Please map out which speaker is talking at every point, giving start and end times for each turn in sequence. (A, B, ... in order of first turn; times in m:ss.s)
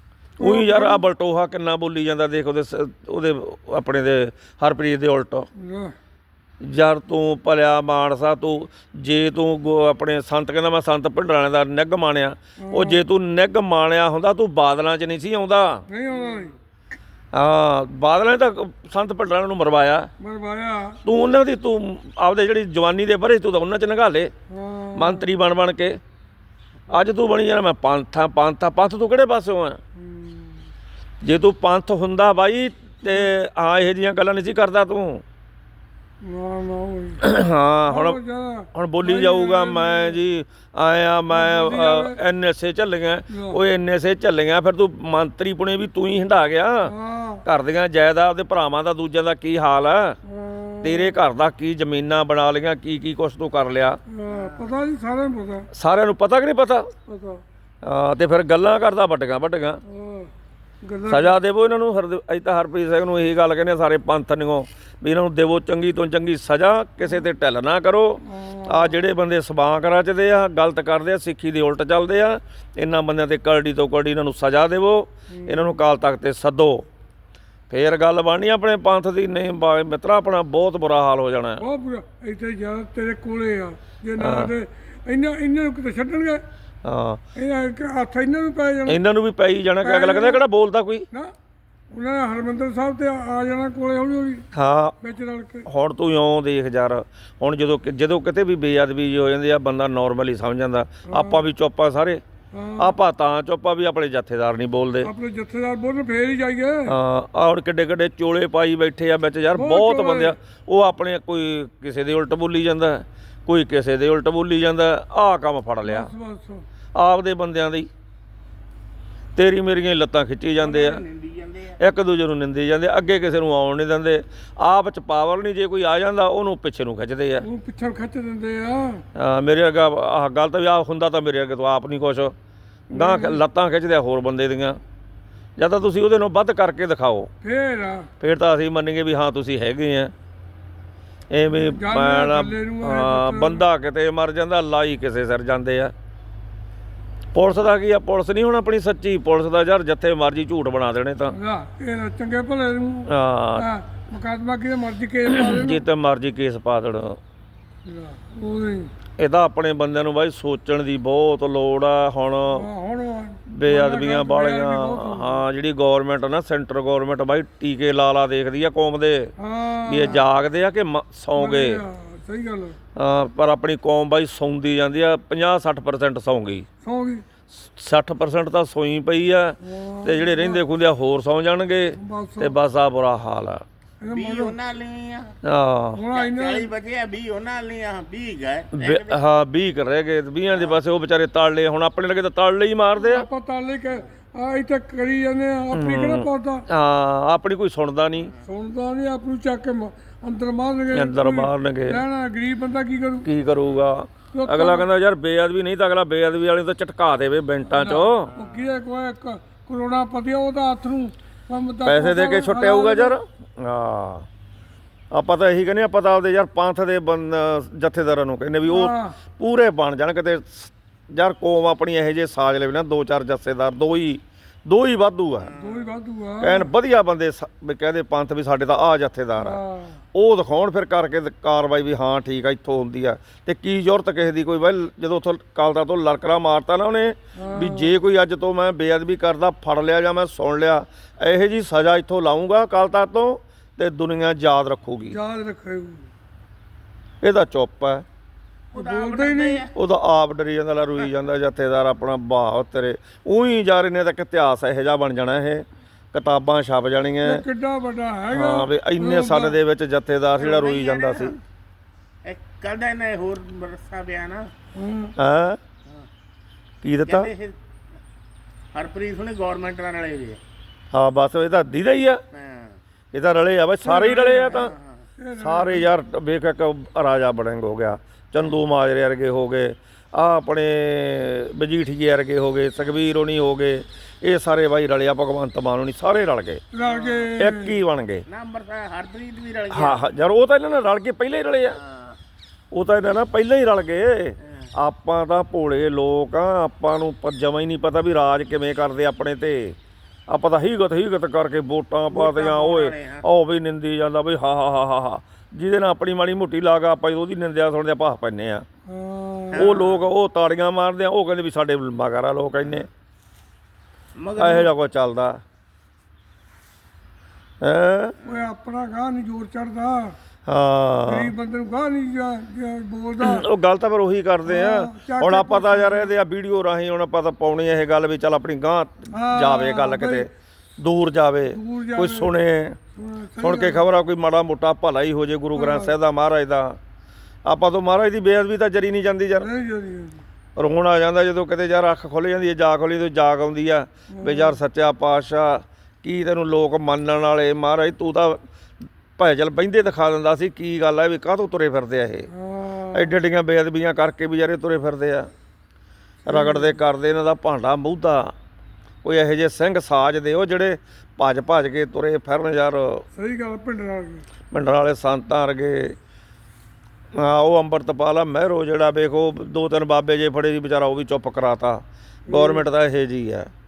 0:00.4-0:01.0 A
0:00.4-0:05.5 B
0:05.6-0:05.9 A
0:06.6-0:15.8 B
0:12.6-0:13.0 A
0:15.9-0:16.5 A
0:17.3-0:20.1 B
0:20.2-0:21.0 A
0:21.0-0:24.3 B
0:24.5-0:25.3 A
0:24.9-0:26.0 B
0:26.9-0:29.8 B
0:30.0-0:30.6 A
0:31.2-0:35.2 B
0:36.2-0:37.2 A
0:37.2-0:38.2 B
0:37.9-0:40.2 A
0:38.7-0:46.9 B
0:41.3-0:42.2 A
0:43.3-0:43.6 A
0:46.8-0:47.4 A
0:47.4-0:50.2 B
0:50.2-0:51.2 A
0:50.8-0:54.0 B
0:54.1-0:55.7 A
0:54.3-0:54.8 C
0:55.7-0:56.9 B
0:57.1-0:57.4 A
0:57.8-0:59.8 B
0:59.8-1:00.3 A
1:00.8-1:01.4 A
1:01.0-1:16.8 B
1:08.2-1:09.0 A
1:15.3-1:15.8 A
1:17.7-1:21.6 B
1:21.6-1:26.4 A
1:24.2-1:24.5 B
1:26.8-1:27.2 B
1:27.3-1:29.0 A
1:28.9-1:31.1 B
1:29.8-1:30.4 A
1:31.9-1:34.4 A
1:34.5-1:35.0 B
1:35.0-1:35.7 A
1:35.6-1:42.2 B
1:41.0-1:41.4 A
1:42.5-1:43.0 A
1:42.8-1:45.1 B
1:45.0-1:47.0 A
1:46.8-1:56.1 B
1:49.5-1:50.4 A
1:55.8-1:56.6 A
1:56.9-1:57.9 B
1:59.4-2:01.0 B
2:00.6-2:01.8 C
2:01.8-2:07.5 B
2:07.4-2:09.0 A
2:09.1-2:12.3 B
2:12.9-2:13.4 A
2:12.9-2:14.8 B
2:15.6-2:17.3 B
2:17.4-2:18.1 A
2:18.2-2:20.1 B
2:21.3-2:25.9 B
2:21.5-2:23.6 A
2:27.3-2:31.4 B
2:31.3-2:35.8 A
2:33.1-2:33.7 B
2:35.3-2:37.2 B
2:37.8-2:38.9 A
2:39.2-2:42.7 B
2:42.5-2:45.4 A
2:43.5-2:49.3 B
2:49.4-2:50.2 A
2:49.8-2:51.8 B
2:50.0-2:50.3 C
2:51.3-2:52.8 A
2:53.0-2:56.6 B
2:56.8-2:57.2 A
2:57.5-3:03.6 B
2:59.6-3:00.6 A
3:02.0-3:02.5 A
3:04.0-3:04.6 A
3:04.1-3:05.4 C
3:05.4-3:06.0 B
3:05.9-3:06.7 A
3:06.1-3:09.2 C
3:08.7-3:13.2 B
3:10.5-3:10.8 C
3:13.0-3:16.6 A
3:15.7-3:18.3 B
3:18.4-3:23.3 A
3:20.9-3:22.0 B
3:23.2-3:28.3 B
3:24.3-3:24.9 A
3:27.7-3:33.1 A
3:28.3-3:28.8 C
3:31.8-3:34.2 B
3:35.1-3:45.5 B
3:38.6-3:39.2 A
3:45.4-3:46.0 C
3:45.5-3:46.7 A
3:46.4-3:49.6 B
3:49.4-3:50.0 A
3:50.1-4:05.2 B
3:57.4-3:58.0 A
4:05.1-4:06.1 A
4:07.2-4:08.0 B
4:08.7-4:09.6 A
4:08.7-4:09.7 C
4:09.7-4:17.4 B
4:17.2-4:19.6 A
4:18.3-4:21.4 B
4:20.4-4:21.4 C
4:22.2-4:24.5 C
4:24.7-4:25.1 A
4:25.2-4:25.6 B
4:26.8-4:27.3 B
4:27.0-4:27.6 C
4:28.7-4:30.4 C
4:30.9-4:32.2 B
4:32.3-4:32.8 C
4:33.1-4:34.7 B
4:33.8-4:35.9 A
4:34.5-4:35.0 C
4:35.4-4:46.6 B
4:46.7-4:47.7 A
4:46.8-4:47.3 C
4:47.4-4:48.2 B
4:48.3-4:50.0 C
4:49.7-4:51.8 B
4:51.7-4:52.2 C
4:52.7-4:59.8 B
5:00.3-5:08.6 B
5:02.1-5:03.2 C
5:08.9-5:09.8 A
5:09.5-5:10.0 C
5:09.6-5:12.9 B
5:14.2-5:14.7 C
5:14.4-5:15.4 B
5:17.6-5:18.2 B
5:18.2-5:18.5 C
5:18.2-5:20.2 A
5:20.4-5:21.3 B
5:21.0-5:23.4 A
5:23.2-5:32.8 B
5:24.4-5:26.1 A
5:29.1-5:30.3 A
5:31.5-5:32.3 A
5:33.0-5:33.9 A
5:33.4-5:36.8 B
5:35.5-5:36.0 A
5:37.4-5:39.5 B
5:39.4-5:40.2 A
5:40.6-5:48.4 B
5:44.1-5:44.6 A
5:49.2-5:52.3 B
5:52.3-5:53.2 A
5:52.9-5:55.3 B
5:56.2-5:56.8 A
5:56.3-5:58.3 B
5:59.0-6:03.0 B
6:03.1-6:04.3 A
6:04.5-6:06.0 B
6:07.1-6:13.5 B
6:12.3-6:12.6 A